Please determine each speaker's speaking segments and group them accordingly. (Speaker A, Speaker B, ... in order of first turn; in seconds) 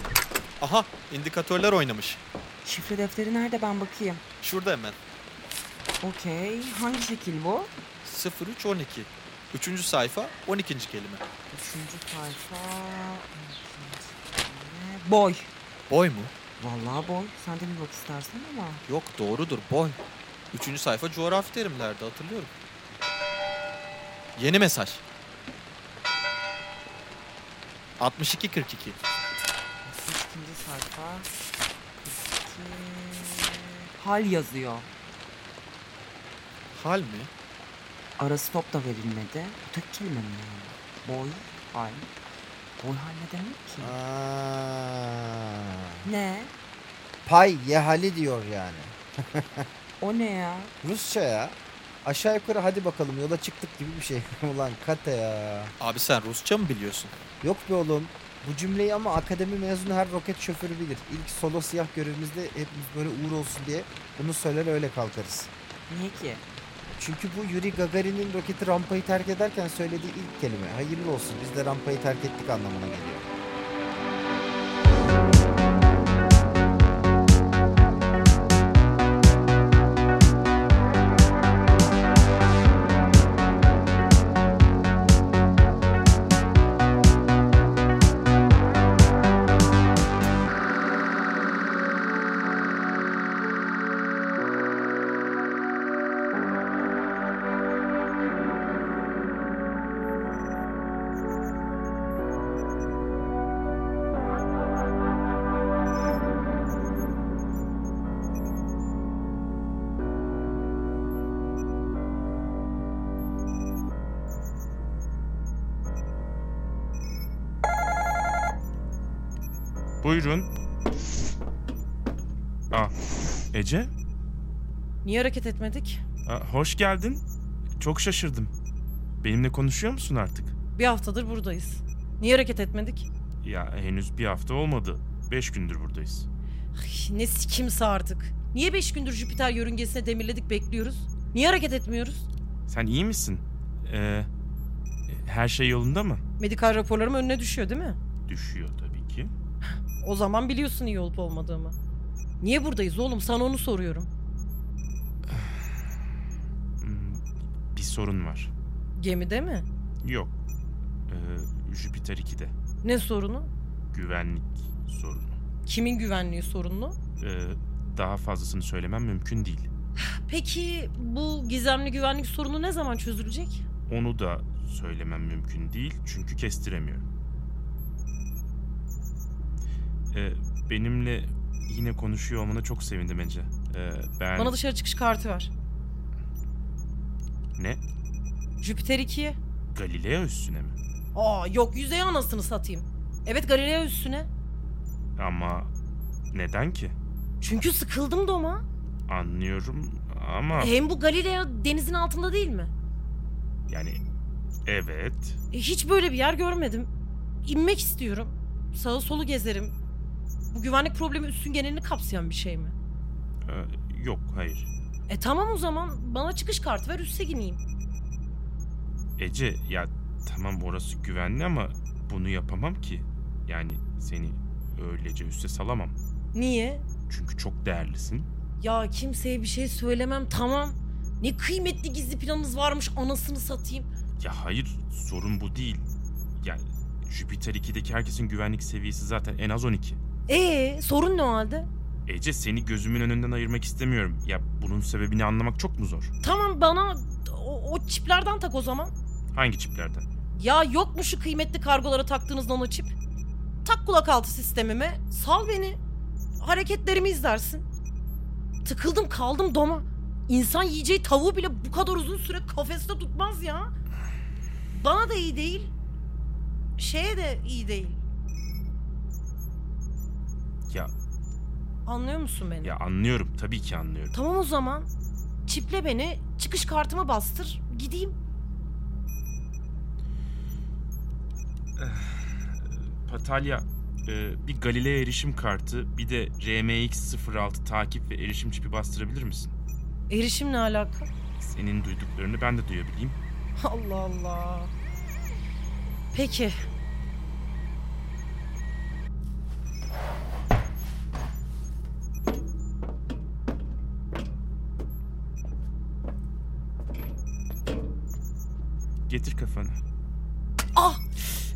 Speaker A: 0.6-2.2, 4.4-5.0, 8.0-11.2, 15.9-16.3, 18.9-20.0, 20.5-22.5, 24.4-25.0, 28.0-29.0, 36.7-37.3, 55.8-57.1
Speaker B: 2.6-4.2, 6.0-7.7, 11.5-15.5, 16.6-18.8, 29.9-31.3, 32.0-34.9, 38.2-42.1, 42.8-43.9, 46.0-46.5, 50.0-50.7, 65.9-66.5
Speaker C: 43.8-46.1, 47.2-49.6, 50.8-55.7, 57.4-65.5, 67.0-73.3
Speaker D: 120.0-120.5, 123.5-123.9, 126.2-127.2, 127.8-128.5, 129.2-130.5, 133.4-136.3, 142.7-144.3, 145.1-146.2, 148.3-149.3, 155.3-155.6, 156.8-157.2, 157.7-158.5, 160.0-160.3, 161.1-162.5, 163.9-165.4, 167.2-169.7, 173.9-177.1, 180.1-184.6, 189.7-190.8, 195.2-195.7, 196.3-196.9, 199.1-200.7, 203.7-204.0, 204.7-205.4, 213.4-214.7, 219.2-226.0, 227.1-228.3, 234.2-235.8, 236.4-240.0, 242.1-246.1, 249.3-250.1, 272.6-274.1, 281.8-289.5, 291.4-293.2, 309.1-309.8
Speaker E: 125.0-126.0, 130.8-133.1, 136.7-142.3, 146.4-148.0, 150.0-151.7, 152.4-154.1, 158.9-159.7, 162.8-163.5, 165.7-166.9, 170.0-173.6, 184.3-185.5, 188.6-189.4, 191.1-194.3, 197.4-198.6, 200.5-202.7, 205.5-206.9, 207.4-209.7, 210.5-212.7, 215.1-217.6, 226.3-226.8, 228.6-233.9, 240.3-241.7, 246.2-248.9, 250.3-252.9, 253.6-255.8, 256.4-257.6, 258.6-263.7, 264.7-265.7, 266.8-268.0, 271.9-272.8, 274.1-274.9, 275.4-278.1, 290.1-291.1, 293.6-294.7, 296.1-296.5, 310.8-311.0